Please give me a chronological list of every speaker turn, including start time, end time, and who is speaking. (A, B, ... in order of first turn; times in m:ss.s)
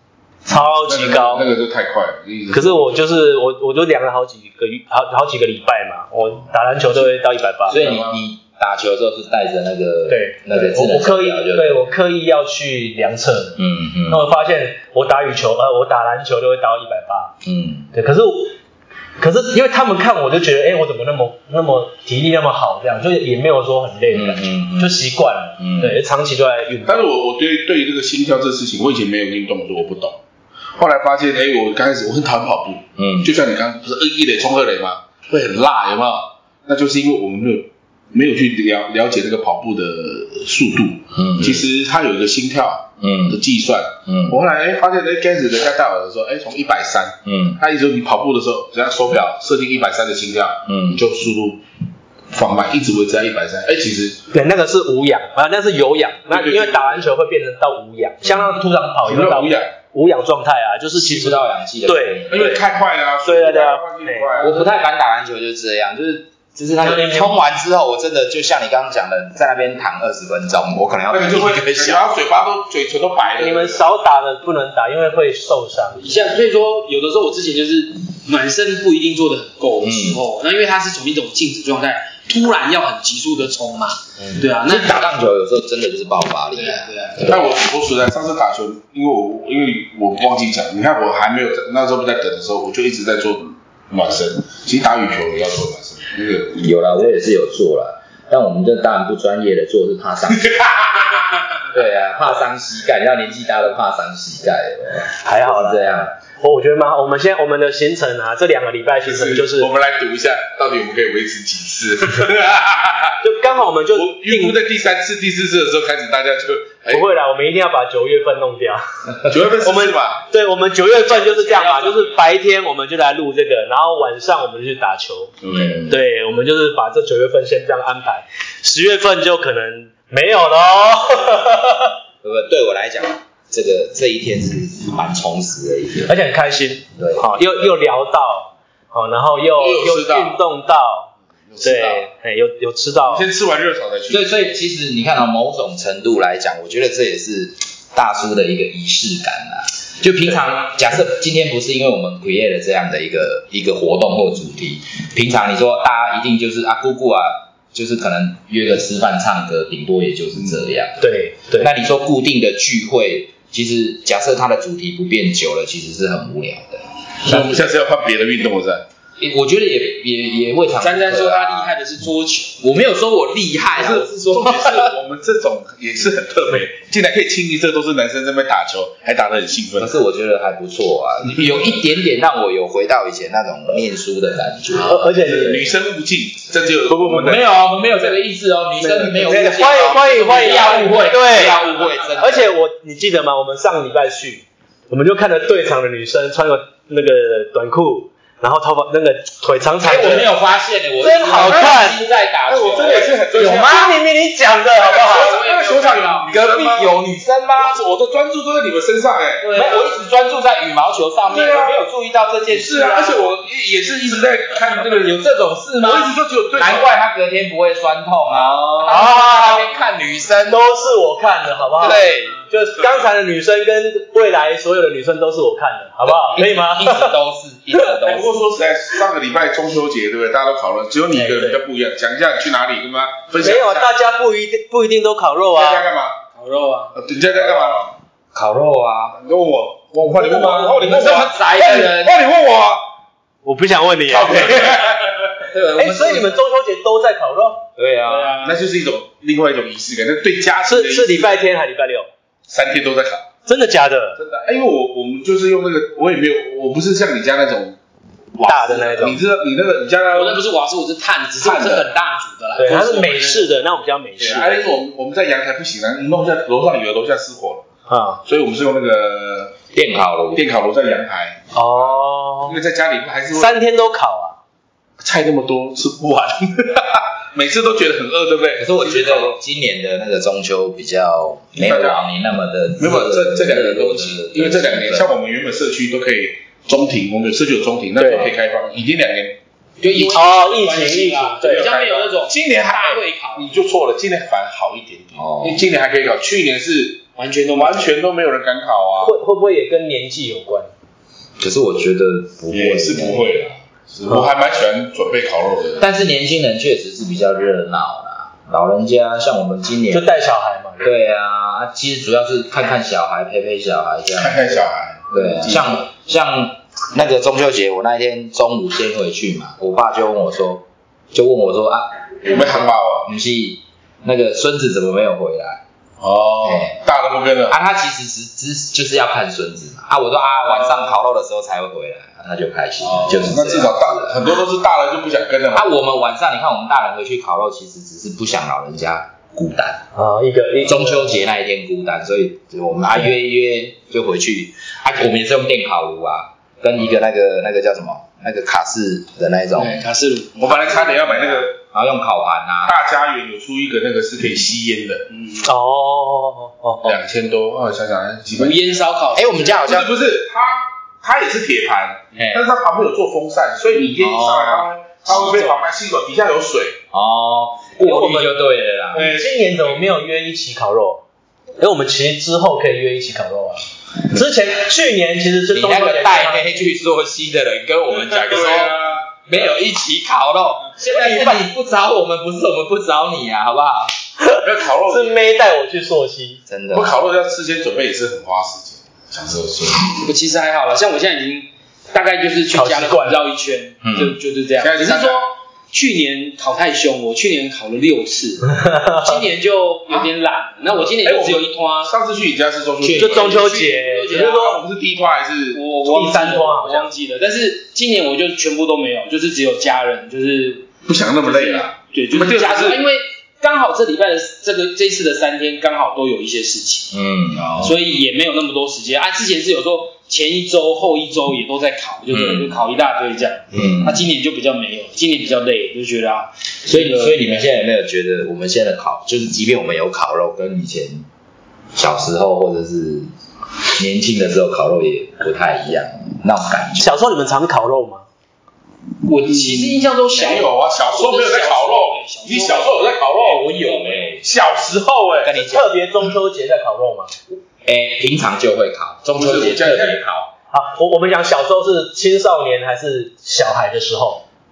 0:00.4-0:01.5 A
0:00.5-0:03.0 B
0:02.5-0:07.8 A
0:07.7-0:11.9 C
0:07.7-0:08.2 B
0:10.1-0:17.3 A
0:13.6-0:14.3 C
0:17.4-0:17.9 C
0:17.9-0:18.5 A
0:19.2-0:27.1 A
0:24.1-0:25.0 C
0:25.6-0:26.0 C
0:26.8-0:30.2 B
0:30.8-0:51.6 B
0:33.0-0:33.3 C
0:41.1-0:41.6 C
0:43.0-0:43.4 C
0:44.0-0:44.4 C
0:47.2-0:47.6 C
0:50.6-0:51.0 C
0:52.3-0:54.2 B
0:54.3-1:02.6 A
0:56.3-0:57.0 B
0:59.0-0:59.7 B
1:01.0-1:02.6 C
1:02.3-1:04.7 B
1:03.2-1:04.3 A
1:04.4-1:12.1 C
1:06.8-1:07.4 A
1:11.1-1:13.8 B
1:13.4-1:16.0 A
1:16.0-1:25.1 D
1:19.8-1:20.2 C
1:24.3-1:27.4 C
1:26.5-1:27.4 D
1:27.2-1:36.7 B
1:36.6-1:40.5 C
1:40.3-1:41.3 B
1:41.7-1:46.1 C
1:45.2-1:49.7 A
1:49.0-1:53.2 B
1:53.2-1:54.6 A
1:53.9-1:57.1 B
1:56.9-2:05.3 A
1:59.2-2:00.2 B
2:00.9-2:02.3 D
2:05.4-2:05.8 B
2:05.5-2:06.0 C
2:05.9-2:11.9 A
2:12.2-2:16.2 C
2:16.1-2:23.3 A
2:17.0-2:17.3 C
2:19.6-2:20.4 B
2:21.5-2:22.0 B
2:23.0-2:24.4 B
2:24.1-2:47.6 C
2:41.0-2:41.7 A
2:47.2-2:48.8 B
2:49.2-2:51.7 C
2:50.8-2:52.6 D
2:52.6-2:54.9 C
2:53.8-2:59.9 B
2:59.8-3:05.7 C
3:04.8-3:05.7 A
3:05.1-3:07.5 B
3:07.0-3:12.5 C
3:08.8-3:11.6 A
3:10.1-3:12.0 D
3:12.2-3:20.3 A
3:19.8-3:23.9 C
3:21.0-3:22.0 A
3:21.4-3:21.8 B
3:22.4-3:23.9 B
3:23.4-3:25.3 A
3:24.9-3:26.3 D
3:24.9-3:27.0 B
3:26.3-3:27.8 C
3:27.5-3:29.5 B
3:29.4-3:33.3 C
3:31.3-3:31.8 B
3:32.5-3:35.2 B
3:34.7-3:40.6 C
3:35.8-3:36.9 B
3:38.4-3:38.7 B
3:38.8-3:39.7 A
3:40.5-3:47.1 A
3:41.8-3:42.4 C
3:41.9-3:42.4 D
3:46.0-3:48.5 C
3:48.0-3:53.9 B
3:51.1-3:51.6 A
3:53.4-3:55.9 A
3:55.5-3:56.2 B
3:56.3-3:56.9 D
3:56.9-3:57.9 B
3:58.3-3:59.2 C
3:59.1-4:02.8 B
4:00.1-4:00.9 A
4:00.6-4:02.2 C
4:03.4-4:04.8 A
4:04.0-4:05.3 B
4:05.5-4:06.3 C
4:05.7-4:07.6 A
4:07.8-4:08.4 C
4:08.0-4:08.6 D
4:08.4-4:11.4 B
4:10.6-4:12.1 A
4:12.5-4:13.2 B
4:13.4-4:14.2 A
4:14.2-4:17.8 B
4:18.4-4:20.4 B
4:18.4-4:19.2 A
4:20.1-4:23.5 D
4:21.4-4:21.9 B
4:22.6-4:24.6 A
4:24.2-4:27.6 B
4:27.9-4:28.2 A
4:28.2-4:29.6 B
4:29.7-4:30.4 C
4:30.3-4:33.6 B
4:31.5-4:32.6 A
4:33.3-4:34.4 A
4:35.0-4:39.4 B
4:38.6-4:45.1 C
4:41.6-4:42.0 B
4:42.8-4:49.4 B
4:48.0-4:48.3 A
4:49.8-4:53.5 D
4:50.0-4:51.7 A
4:51.4-4:59.2 B
4:55.1-4:55.6 C
4:57.2-4:57.9 D
4:59.0-5:00.7 A
5:01.4-5:03.5 C
5:02.5-5:05.8 B
5:05.8-5:10.1 C
5:09.9-5:10.9 A
5:10.8-5:14.4 C
5:14.2-5:15.8 B
5:15.1-5:25.6 C
5:22.3-5:23.1 B
5:26.0-5:27.6 B
5:26.4-5:26.8 C
5:27.5-5:34.2 C
5:30.4-5:30.9 B
5:32.8-5:35.7 B
5:35.5-5:39.8 C
5:39.9-5:41.2 A
5:40.6-5:49.9 C
5:49.6-5:50.8 D
5:50.4-5:51.5 B
5:50.4-5:52.8 C
5:52.6-5:55.0 B
5:55.1-5:55.4 D
5:55.4-5:57.0 A
5:56.8-5:58.8 B
5:58.4-5:59.7 D
5:59.1-5:59.9 C
5:59.6-6:06.8 B
6:02.1-6:02.4 C
6:04.0-6:04.7 C
6:05.1-6:05.6 D
6:06.9-6:09.1 C
6:07.8-6:08.4 A
6:08.9-6:11.0 A
6:08.9-6:09.9 B
6:11.6-6:16.5 A
6:15.5-6:23.9 C
6:18.1-6:19.1 B
6:20.9-6:21.4 A
6:24.2-6:26.4 A
6:24.4-6:25.2 B
6:26.5-6:27.0 C
6:26.7-6:29.9 B
6:30.0-6:41.9 D
6:32.5-6:33.2 A
6:33.8-6:34.2 C
6:34.6-6:35.2 B
6:38.5-6:39.2 A
6:41.0-6:43.6 B
6:42.8-6:44.5 D
6:42.9-6:44.6 A
6:44.1-6:45.6 B
6:45.5-6:57.0 D
6:45.8-6:46.9 A
6:50.8-6:52.8 B
6:56.9-6:57.7 C
6:57.5-7:07.4 D
7:02.1-7:02.6 C
7:03.5-7:04.0 C
7:06.6-7:11.0 C
7:11.7-7:13.1 C
7:13.8-7:16.9 C
7:16.8-7:18.0 A
7:19.0-7:24.2 D
7:19.4-7:23.5 B
7:23.4-7:24.2 C
7:24.2-7:25.3 B
7:25.2-7:26.1 C
7:25.4-7:27.1 A
7:27.6-7:30.3 C
7:29.1-7:30.0 B
7:30.5-7:34.2 A